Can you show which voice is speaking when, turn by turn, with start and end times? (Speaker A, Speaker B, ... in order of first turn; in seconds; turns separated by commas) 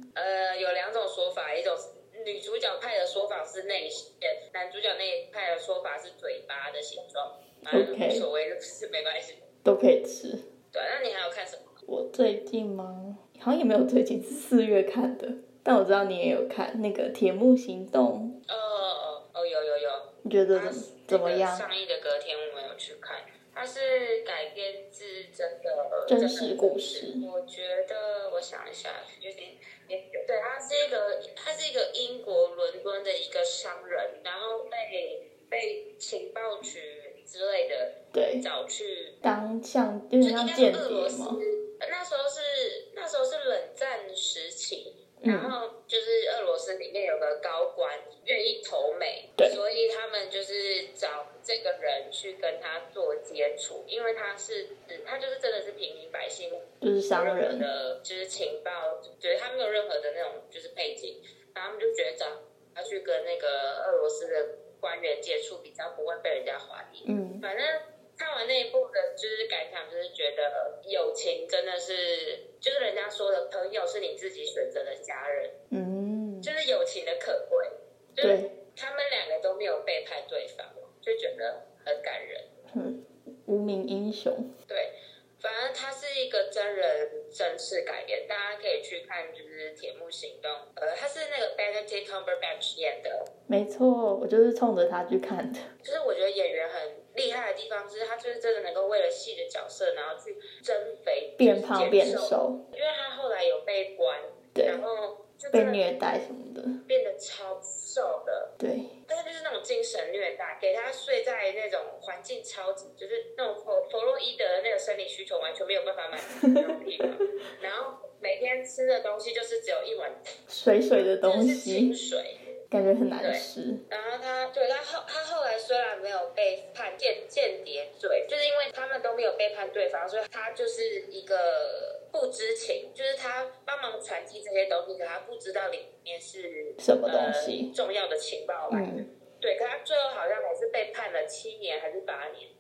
Speaker A: 0.1-9.4, Speaker B: 7.7-8.3, Speaker B: 9.7-10.4, Speaker A: 10.7-11.8, Speaker B: 11.9-18.4, Speaker A: 18.5-39.2, Speaker B: 20.2-21.7, Speaker B: 26.1-27.2, Speaker B: 38.1-38.5, Speaker B: 39.2-41.4, Speaker A: 40.2-75.5, Speaker B: 45.2-45.5, Speaker B: 56.8-57.7, Speaker B: 67.0-67.4, Speaker B: 75.7-76.5, Speaker A: 76.4-82.5, Speaker B: 78.2-78.5, Speaker B: 82.7-84.5, Speaker A: 84.7-93.3, Speaker B: 93.5-95.6, Speaker A: 95.8-105.8, Speaker B: 101.4-102.6, Speaker B: 104.5-104.8, Speaker B: 105.5-106.8, Speaker A: 106.9-108.5, Speaker B: 108.6-108.9, Speaker A: 109.1-120.2, Speaker B: 116.4-116.7, Speaker B: 120.5-121.9, Speaker A: 121.2-122.4, Speaker B: 122.7-123.8, Speaker A: 123.2-142.5, Speaker B: 136.8-137.7, Speaker B: 138.7-139.1